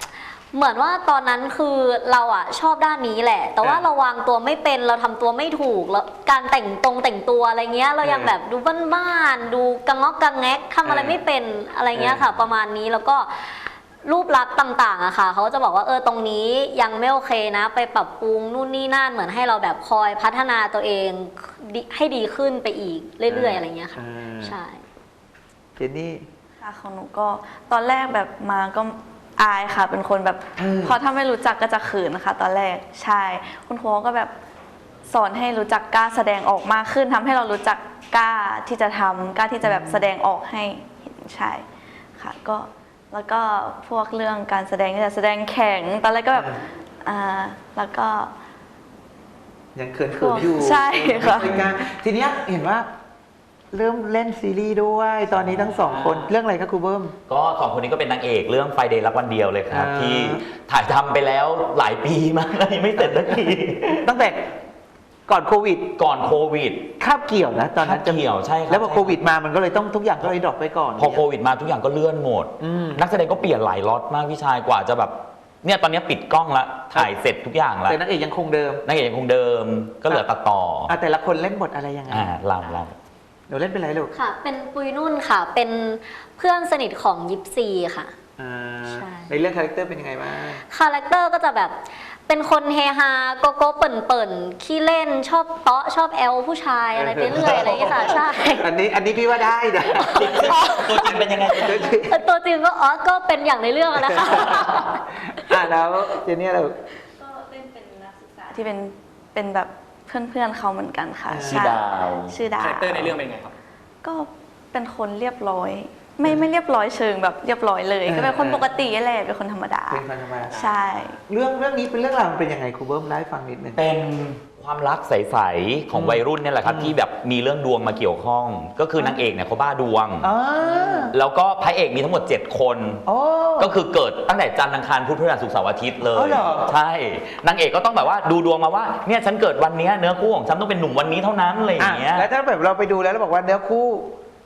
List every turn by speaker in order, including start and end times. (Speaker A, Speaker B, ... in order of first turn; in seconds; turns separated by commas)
Speaker A: 0.5-24.8, Speaker B: 8.0-8.3, Speaker B: 10.9-11.2, Speaker B: 11.9-12.2, Speaker B: 23.3-24.6, Speaker B: 25.8-26.3, Speaker C: 26.6-34.3, Speaker B: 30.6-31.0, Speaker C: 35.1-41.6, Speaker B: 39.6-40.1, Speaker C: 42.2-46.5, Speaker C: 47.0-48.3, Speaker B: 49.8-52.9, Speaker C: 50.2-51.7, Speaker B: 53.7-57.1, Speaker D: 55.7-56.3, Speaker E: 57.3-64.1, Speaker B: 59.7-60.4, Speaker B: 63.0-63.4, Speaker B: 64.0-64.5, Speaker B: 65.3-65.9, Speaker E: 66.0-66.9, Speaker B: 67.0-71.2, Speaker E: 67.8-69.2, Speaker E: 71.0-78.0, Speaker B: 72.6-73.0, Speaker B: 77.9-78.8, Speaker E: 78.8-81.0, Speaker B: 80.9-82.3, Speaker E: 82.1-83.0, Speaker B: 83.5-84.1, Speaker A: 84.1-88.1, Speaker B: 88.4-90.6, Speaker A: 88.8-89.3, Speaker A: 90.7-98.7, Speaker B: 97.0-102.2, Speaker A: 99.9-105.0, Speaker E: 100.1-101.9, Speaker B: 104.0-106.7, Speaker C: 107.2-113.2, Speaker B: 111.3-111.7, Speaker E: 111.5-112.5, Speaker D: 112.5-113.5, Speaker C: 114.0-121.2, Speaker B: 118.1-118.7, Speaker B: 119.9-120.6, Speaker D: 120.5-120.8, Speaker B: 121.3-123.8, Speaker E: 123.8-130.3, Speaker B: 125.9-127.0, Speaker B: 130.2-131.2, Speaker E: 130.9-133.1, Speaker B: 133.1-133.8, Speaker E: 133.6-142.3, Speaker B: 136.1-136.7, Speaker B: 141.8-144.1